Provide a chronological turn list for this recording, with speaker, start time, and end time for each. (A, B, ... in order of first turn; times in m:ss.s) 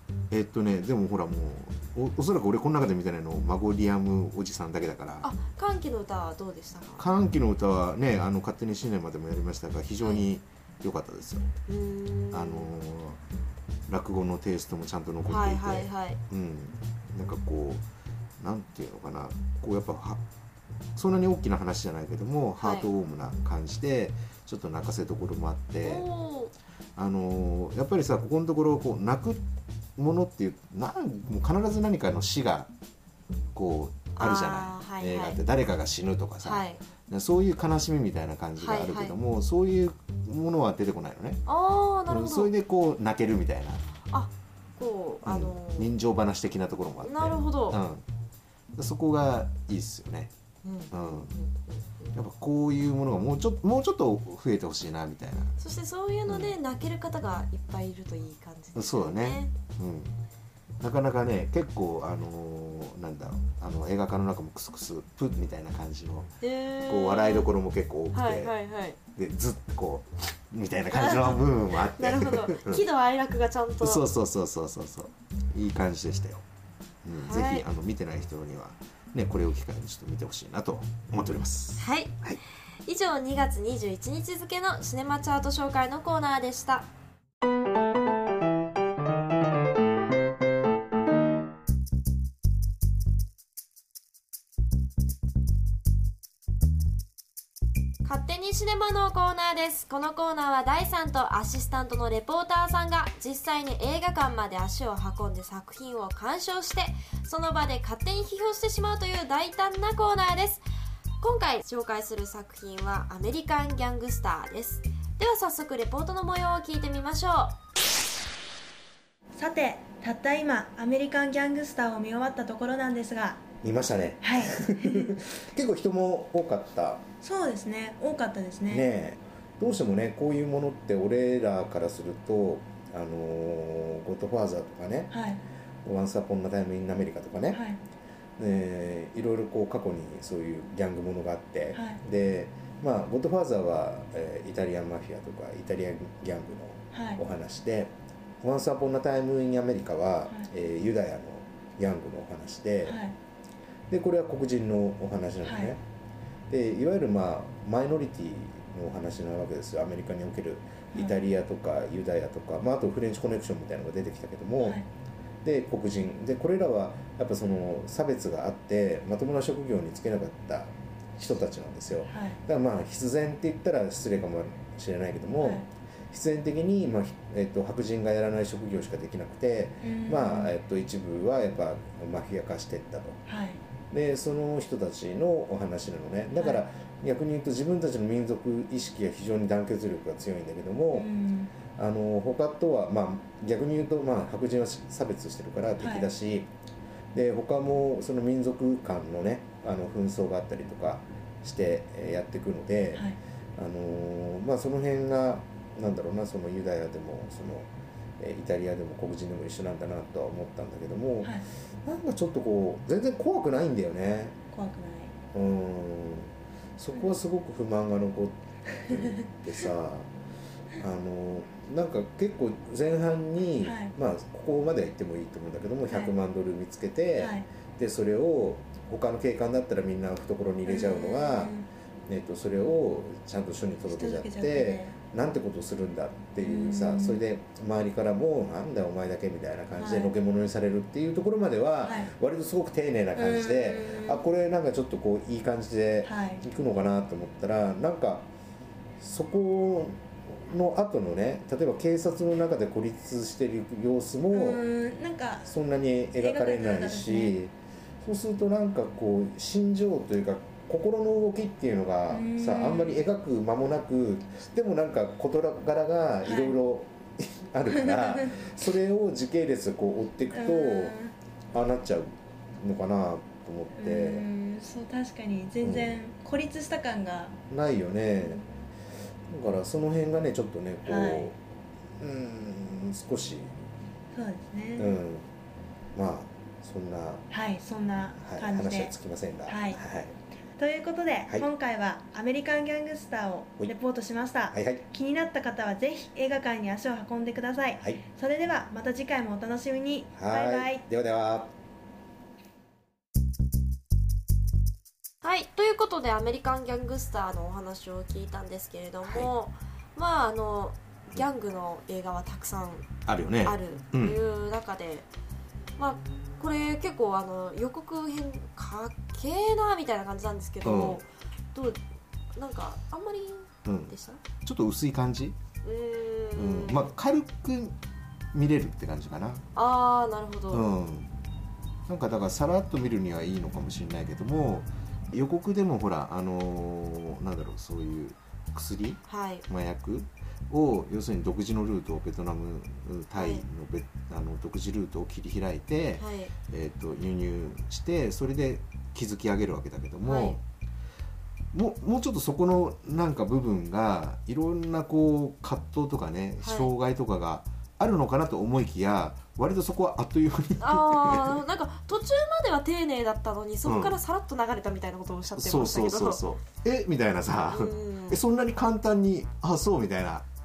0:00.3-0:05.3 A
0:05.2-0:07.1 B
0:07.0-0:11.5 A
0:11.7-0:12.7 B
0:12.3-0:13.2 A
0:13.9-0:17.8 A
0:15.3-0:16.2 B
0:18.4-0:20.2 A
0:21.0-0:26.1 A
0:22.6-0:22.9 B
0:25.8-0:26.5 B
0:27.0-0:29.4 A
0:30.0-0:32.7 A
0:33.5-0:41.4 A
0:34.1-0:35.4 B
0:36.4-0:36.8 B
0:38.6-0:39.2 B
0:41.4-0:42.5 B
0:42.1-0:43.8 A
0:44.1-0:45.9 B
0:45.2-0:48.0 A
0:47.0-0:47.8 B
0:48.7-0:50.3 A
0:50.6-0:52.2 B
0:50.9-0:51.3 A
0:52.1-0:55.6 A
0:55.6-0:59.5 B
0:56.3-0:56.6 A
0:58.7-1:00.2 A
1:00.8-1:06.3 A
1:06.4-1:07.5 B
1:06.8-1:08.5 A
1:08.1-1:09.0 B
1:09.2-1:12.8 A
1:10.9-1:14.0 B
1:13.8-1:16.4 A
1:17.0-1:22.4 A
1:17.1-1:17.6 B
1:21.8-1:22.2 B
1:22.8-1:26.9 B
1:38.0-1:50.6 B
1:51.2-1:57.6 B
1:59.4-2:03.4 C
2:03.6-2:07.0 A
2:04.2-2:05.2 C
2:07.2-2:08.9 C
2:08.7-2:15.1 A
2:15.1-2:15.4 C
2:15.8-2:17.6 A
2:17.5-2:17.8 C
2:18.4-2:33.0 A
2:21.7-2:22.0 C
2:26.9-2:27.2 C
2:32.8-2:33.2 C
2:33.9-2:35.8 A
2:35.4-2:35.7 C
2:36.5-2:44.8 A
2:44.6-2:44.9 C
2:45.4-3:03.2 A
2:52.1-2:52.4 C
2:55.4-2:55.7 C
2:59.8-3:00.5 C
3:03.3-3:03.6 C
3:03.9-3:11.1 A
3:06.3-3:06.6 C
3:10.9-3:11.5 C
3:11.7-3:16.5 A
3:15.8-3:16.1 C
3:17.1-3:34.4 A
3:22.9-3:23.2 C
3:34.5-3:35.1 C
3:35.3-3:40.1 A
3:38.9-3:39.3 C
3:40.8-3:51.5 A
3:43.6-3:43.9 C
3:45.9-3:46.2 C
3:47.2-3:47.5 C
3:50.6-3:51.7 C
3:52.1-4:08.3 A
3:53.9-3:54.9 C
3:56.4-3:57.2 C
3:59.8-4:00.1 C
4:01.8-4:02.1 C
4:03.2-4:04.2 C
4:06.0-4:06.4 C
4:09.0-4:14.6 A
4:14.3-4:15.5 C
4:15.4-4:30.9 A
4:16.2-4:17.4 C
4:22.1-4:23.0 C
4:26.2-4:26.6 C
4:27.7-4:28.4 C
4:30.3-4:31.1 C
4:31.5-4:34.2 A
4:33.8-4:37.4 C
4:35.6-4:36.0 A
4:37.5-4:38.4 A
4:39.3-4:41.4 A
4:40.8-4:41.3 C
4:42.0-4:43.6 A
4:44.1-4:45.0 C
4:44.8-4:45.3 A
4:45.9-4:47.2 A
4:47.3-4:48.9 C
4:48.2-4:50.2 A
4:49.5-4:49.8 C
4:50.6-5:00.8 C
4:54.5-4:54.8 A
5:00.1-5:01.5 A
5:05.2-5:15.1 B
5:09.0-5:09.3 A
5:13.0-5:14.2 A
5:15.8-5:21.8 B
5:20.6-5:21.0 A
5:22.4-5:24.2 B
5:23.6-5:25.4 A
5:25.6-5:26.9 B
5:26.3-5:27.8 A
5:28.3-5:29.4 A
5:29.5-5:30.7 B
5:30.5-5:31.2 A
5:31.8-5:50.4 A
5:39.1-5:39.4 B
5:43.2-5:43.4 B
5:46.0-5:46.3 B
5:50.0-5:50.4 B
5:51.5-6:01.4 A
5:56.4-5:56.7 B
6:00.6-6:06.2 B
6:03.6-6:04.0 A
6:05.3-6:10.2 A
6:07.5-6:08.2 B